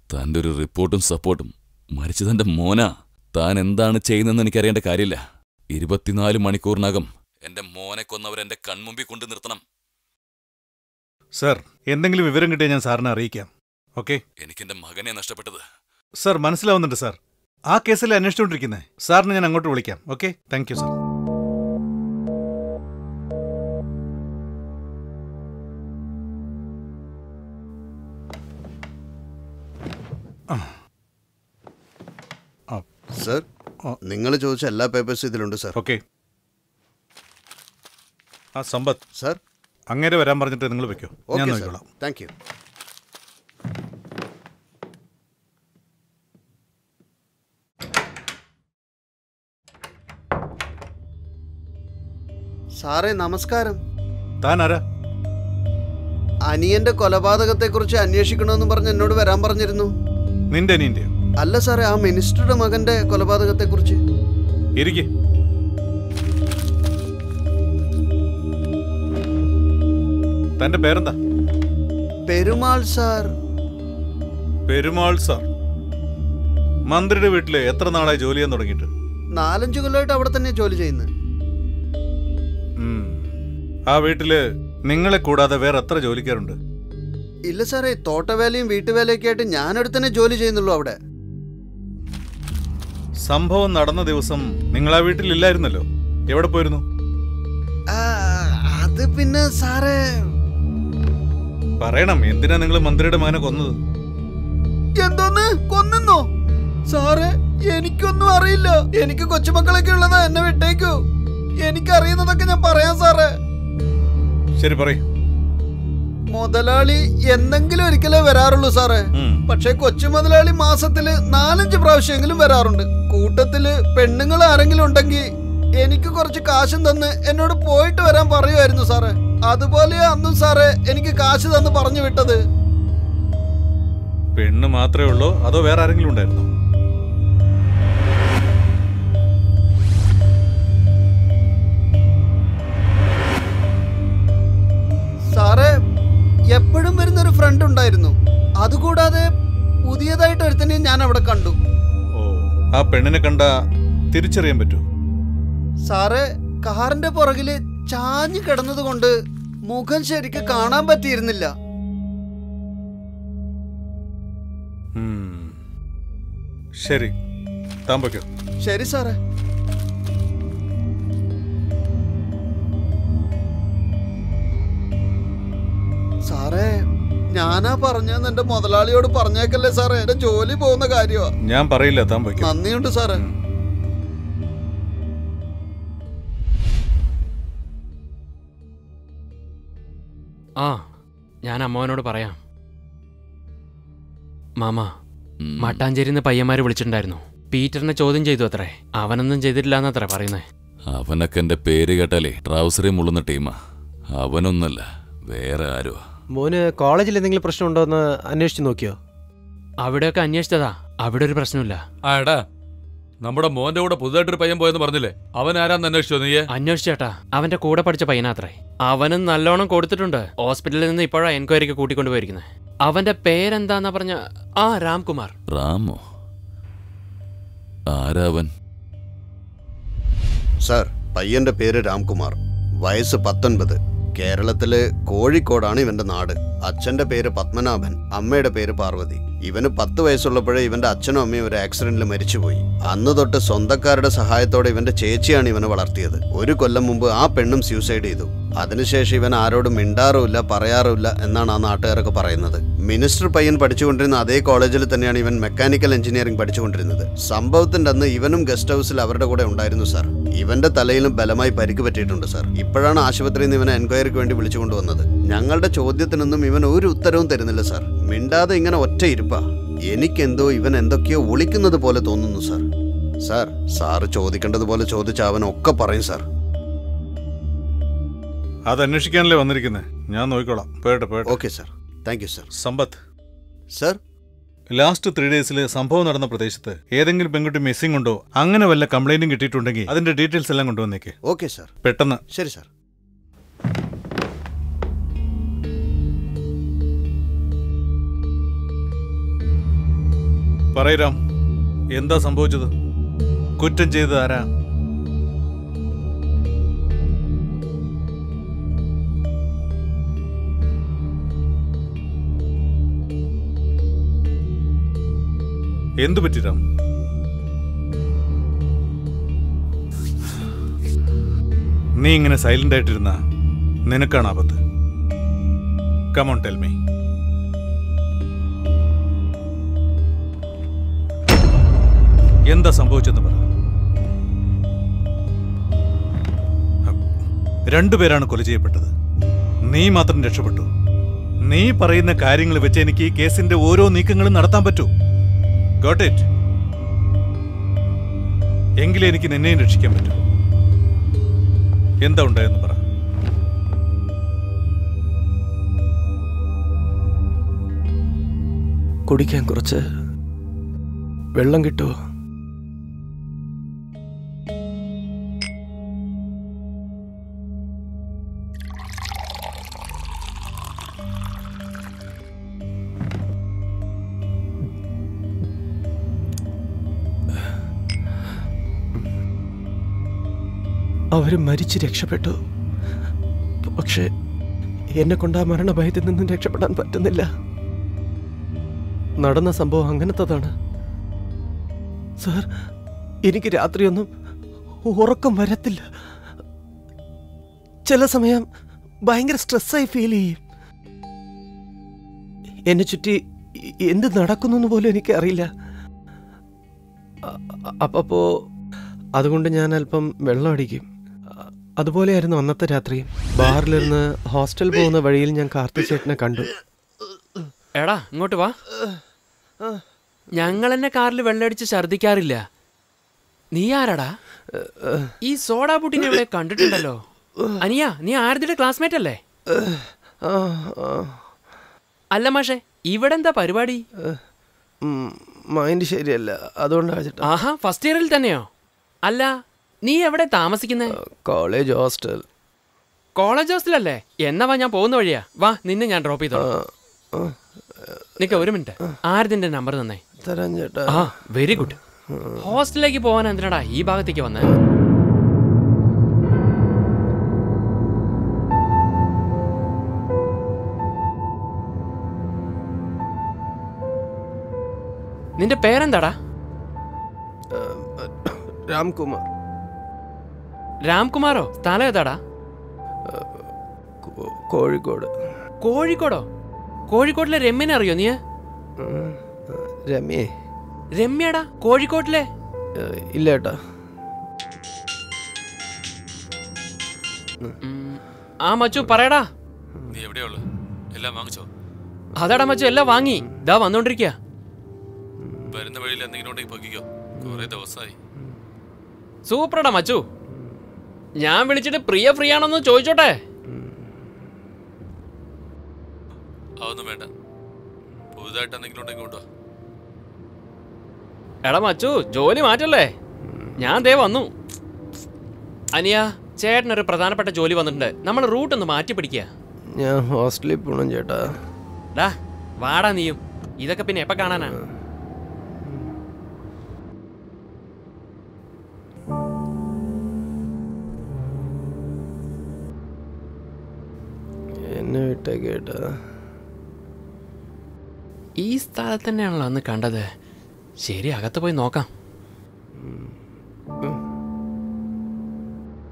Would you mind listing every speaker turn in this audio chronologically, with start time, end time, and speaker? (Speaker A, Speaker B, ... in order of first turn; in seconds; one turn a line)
Speaker A: 0.1-5.2
Speaker A: 5.7-9.6
Speaker B: 11.4-14.2
Speaker A: 14.4-15.6
Speaker B: 16.2-17.2
Speaker B: 17.7-20.9
Speaker C: 33.2-33.5
Speaker C: 34.0-35.8
Speaker B: 35.8-36.0
Speaker B: 38.6-39.0
Speaker B: 39.9-41.9
Speaker C: 41.3-42.3
Speaker C: 52.8-53.8
Speaker B: 54.4-54.8
Speaker C: 56.5-59.9
Speaker B: 60.5-61.1
Speaker C: 61.4-64.0
Speaker B: 64.8-65.1
Speaker B: 70.6-71.2
Speaker C: 72.3-73.3
Speaker B: 74.7-75.5
Speaker B: 76.9-78.9
Speaker C: 79.3-81.1
Speaker B: 82.8-83.3
Speaker B: 83.9-86.6
Speaker C: 87.5-91.0
Speaker B: 93.2-96.8
Speaker C: 97.9-100.1
Speaker B: 101.8-103.8
Speaker C: 105.0-106.3
Speaker C: 106.9-111.0
Speaker C: 111.6-113.3
Speaker B: 114.6-115.0
Speaker C: 116.3-125.3
Speaker B: 119.1-119.4
Speaker C: 125.8-132.4
Speaker B: 134.4-136.5
Speaker C: 145.3-145.8
Speaker C: 146.5-149.3
Speaker C: 149.9-151.6
Speaker B: 152.1-153.5
Speaker B: 154.1-154.8
Speaker C: 155.9-159.1
Speaker C: 159.7-161.5
Speaker B: 164.9-165.6
Speaker B: 166.8-167.1
Speaker B: 167.9-168.3
Speaker C: 168.6-169.2
Speaker C: 176.3-176.7
Speaker C: 177.3-181.3
Speaker B: 181.5-182.6
Speaker C: 182.4-183.2
Speaker D: 190.6-190.8
Speaker D: 191.5-192.4
Speaker D: 194.6-194.9
Speaker A: 195.4-195.8
Speaker D: 195.6-200.4
Speaker A: 200.9-203.5
Speaker A: 204.2-206.0
Speaker E: 206.3-209.0
Speaker D: 209.8-211.8
Speaker F: 212.1-212.4
Speaker F: 213.2-216.5
Speaker D: 216.5-225.3
Speaker A: 225.5-226.0
Speaker A: 227.9-228.5
Speaker C: 230.6-272.7
Speaker C: 273.3-276.2
Speaker B: 278.7-281.4
Speaker C: 281.3-282.5
Speaker B: 282.5-283.0
Speaker B: 284.7-291.2
Speaker C: 291.2-291.7
Speaker B: 291.8-292.2
Speaker C: 292.3-292.7
Speaker B: 300.7-301.2
Speaker B: 301.9-302.7
Speaker B: 303.6-304.5
Speaker B: 316.0-316.6
Speaker B: 322.0-323.2
Speaker B: 323.9-324.6
Speaker B: 326.1-326.8
Speaker B: 332.5-333.4
Speaker B: 337.7-338.9
Speaker B: 339.7-340.7
Speaker B: 341.5-344.9
Speaker B: 345.8-346.3
Speaker B: 348.8-350.2
Speaker B: 352.0-352.8
Speaker E: 359.1-359.8
Speaker E: 361.4-361.9
Speaker E: 381.1-382.4
Speaker E: 383.7-384.1
Speaker E: 385.0-387.3
Speaker E: 389.2-390.5
Speaker E: 392.2-392.5
Speaker E: 393.3-394.1
Speaker E: 394.9-395.9
Speaker E: 397.9-398.4
Speaker E: 399.1-400.4
Speaker E: 402.7-405.5
Speaker E: 407.2-408.2
Speaker E: 409.2-416.5
Speaker D: 417.8-418.6
Speaker D: 420.3-422.4
Speaker D: 423.5-424.2
Speaker E: 424.5-425.1
Speaker D: 425.2-427.0
Speaker D: 427.6-429.2
Speaker E: 429.5-431.2
Speaker D: 432.1-433.8
Speaker E: 434.8-437.3
Speaker D: 437.2-438.5
Speaker D: 439.1-439.3
Speaker D: 439.9-441.0
Speaker E: 440.9-442.2
Speaker D: 443.2-446.5
Speaker E: 446.3-448.4
Speaker D: 448.2-450.0
Speaker E: 450.2-452.4
Speaker D: 450.9-451.8
Speaker D: 452.4-454.5
Speaker D: 465.4-466.1
Speaker E: 467.5-469.3
Speaker D: 470.9-472.2
Speaker E: 473.1-473.4
Speaker E: 474.0-475.1
Speaker D: 475.6-476.3
Speaker D: 476.9-478.2
Speaker E: 478.8-480.3
Speaker D: 480.9-482.3
Speaker E: 482.8-483.6
Speaker D: 487.6-489.3
Speaker F: 489.9-490.4
Speaker F: 490.9-491.5
Speaker D: 492.2-494.2
Speaker F: 495.5-497.9
Speaker D: 499.3-500.0
Speaker D: 501.2-503.2
Speaker F: 506.6-507.1
Speaker F: 508.2-509.2
Speaker D: 511.4-512.9
Speaker D: 513.6-514.3
Speaker D: 515.8-519.3
Speaker E: 519.8-521.4
Speaker D: 522.0-524.6
Speaker E: 534.6-536.0
Speaker D: 538.4-540.1
Speaker D: 540.8-541.9
Speaker E: 542.8-543.1